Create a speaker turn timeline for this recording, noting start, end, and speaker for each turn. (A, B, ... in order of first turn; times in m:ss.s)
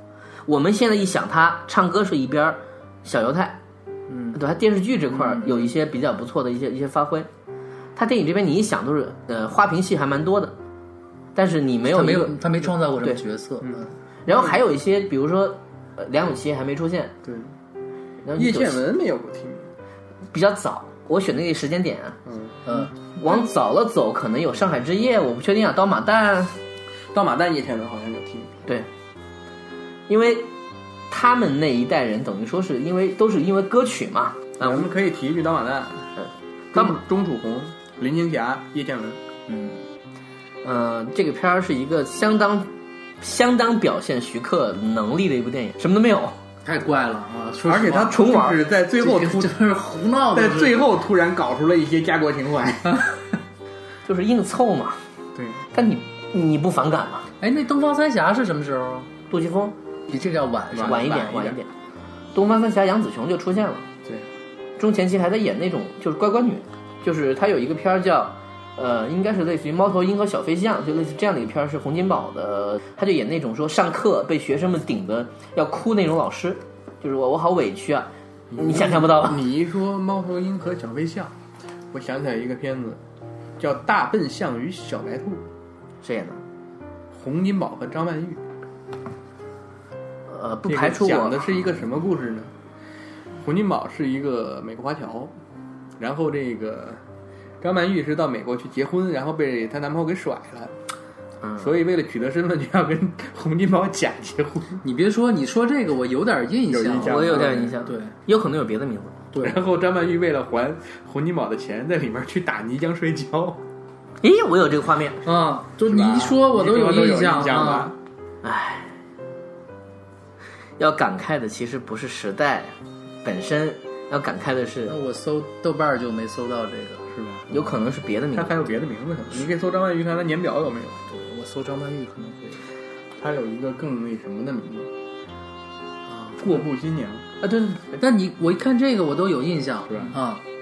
0:00.4-0:03.6 A
0:04.1-0:04.4 B
0:04.3-0:07.3 A
0:05.2-0:05.5 B
0:08.0-0:10.5 A
0:11.3-0:12.4 A
0:11.8-0:13.9 B
0:14.2-0:17.1 A
0:17.2-0:17.5 C
0:18.2-0:18.8 A
0:18.4-0:19.7 C
0:20.3-0:22.2 A
0:22.2-0:22.6 C
0:22.6-0:22.9 B
0:23.2-0:26.6 A
0:27.1-0:28.6 C
0:30.1-0:30.5 A
0:31.1-0:34.9 A
0:34.6-0:36.1 C
0:36.2-0:37.0 A
0:36.7-0:39.2 C
0:39.5-0:39.8 B
0:40.6-0:46.4 A
0:46.6-0:50.8 B
0:47.6-0:49.6 C
0:48.1-0:48.6 A
0:50.3-0:53.0 C
0:54.0-0:55.0 A
0:55.3-0:55.6 C
0:55.7-0:57.3 A
0:57.4-0:59.1 B
0:59.3-0:59.7 A
1:00.1-1:01.5 B
1:00.7-1:01.6 C
1:00.8-1:01.7 A
1:02.3-1:03.8 A
1:04.8-1:19.4 A
1:18.5-1:21.3 C
1:21.9-1:23.0 C
1:23.6-1:25.4 C
1:26.0-1:26.4 A
1:27.1-1:28.4 C
1:30.3-1:31.4 A
1:30.7-1:32.5 C
1:33.4-1:35.3 C
1:36.0-1:37.0 C
1:37.6-1:40.7 C
1:41.4-1:41.7 A
1:41.6-1:44.8 C
1:44.8-1:48.1 B
1:46.7-1:47.7 C
1:47.0-1:49.2 A
1:49.3-1:49.6 B
1:49.4-1:53.6 C
1:54.2-1:55.2 A
1:55.2-1:57.9 B
1:55.8-1:58.0 C
1:58.4-1:59.0 A
2:00.8-2:05.0 A
2:04.9-2:07.1 B
2:07.1-2:07.5 C
2:07.5-2:08.6 A
2:08.3-2:11.0 C
2:11.1-2:12.6 B
2:13.2-2:14.9 C
2:16.1-2:16.4 B
2:16.4-2:17.2 C
2:17.4-2:18.0 A
2:18.0-2:20.4 B
2:19.9-2:20.2 C